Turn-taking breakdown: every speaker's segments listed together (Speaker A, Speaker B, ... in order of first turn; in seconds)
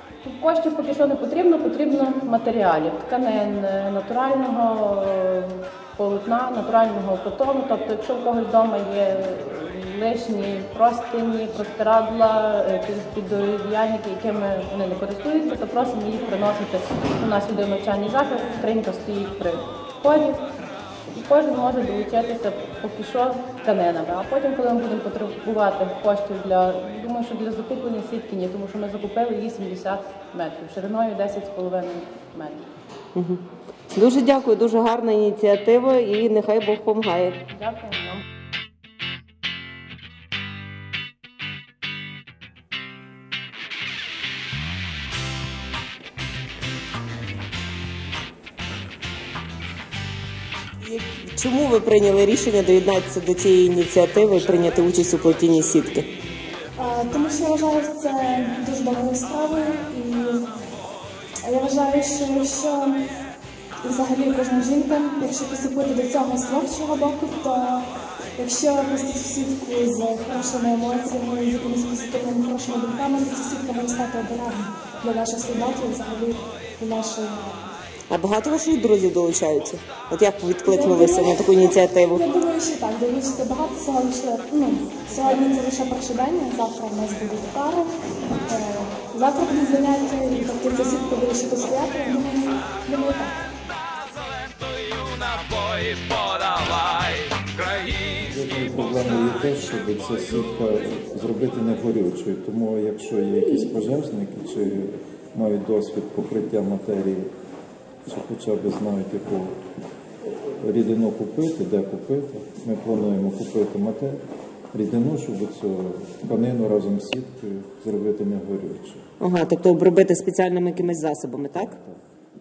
Speaker A: 0.2-20.4, 21.1-32.6, 37.5-38.2
Speaker B: 33.1-37.4, 50.8-56.1, 78.1-82.2, 119.2-121.8
Speaker C: 56.8-60.5, 61.4-63.0, 63.8-77.6, 80.6-93.4
Speaker D: 94.9-98.2
Speaker E: 98.2-107.3, 108.0-109.6, 110.6-119.1